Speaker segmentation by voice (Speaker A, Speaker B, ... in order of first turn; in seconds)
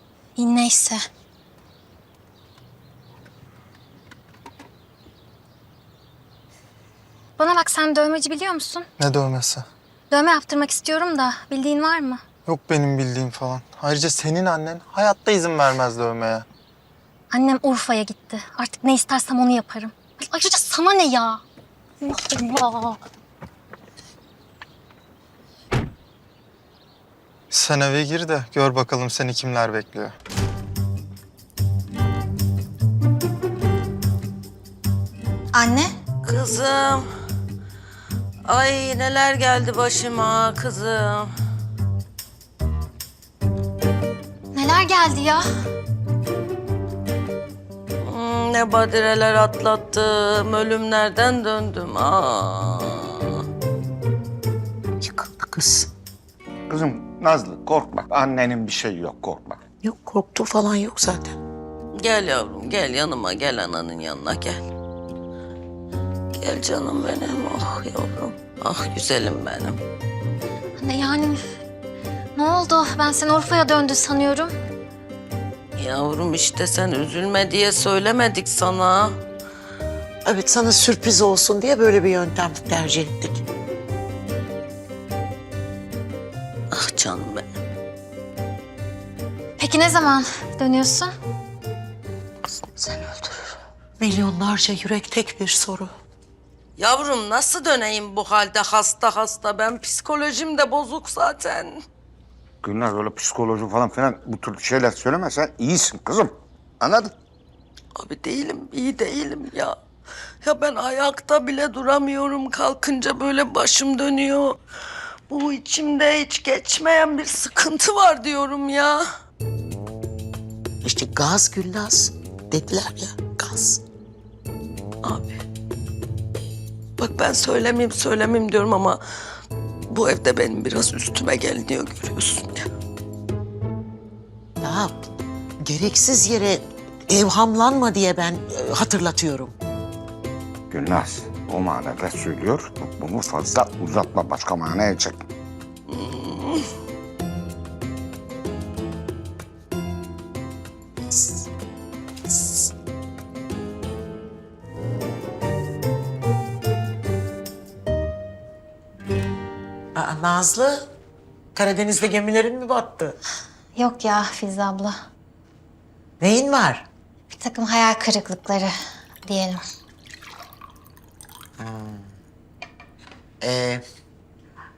Speaker A: 0.4-1.0, 7.4-8.9, 10.1-12.2, 17.3-21.4, 22.0-23.0, 35.5-35.9, 44.5-45.4, 70.8-71.4, 72.4-74.5, 89.6-91.1, 163.8-164.9, 167.3-168.7, 169.3-169.6
Speaker B: 9.0-9.7, 12.5-16.5, 27.5-30.2
Speaker C: 36.2-37.0, 38.5-41.3, 48.0-53.4, 62.0-64.6, 66.4-69.8, 75.8-79.1, 86.7-87.4, 92.7-93.5, 96.8-101.8, 108.0-109.8, 110.4-114.6, 115.3-119.0, 125.0-125.4, 127.0-129.0, 129.9-132.6, 145.9-146.6
Speaker D: 55.0-55.9, 59.8-61.4, 80.2-83.4, 94.0-95.9, 120.8-123.8, 134.6-135.1, 135.6-139.6, 151.1-151.4, 152.3-152.7, 160.0-160.8, 161.6-163.2, 166.2-166.9, 171.6-172.1, 173.4-173.8
Speaker E: 56.7-59.6, 102.6-107.1, 140.7-145.2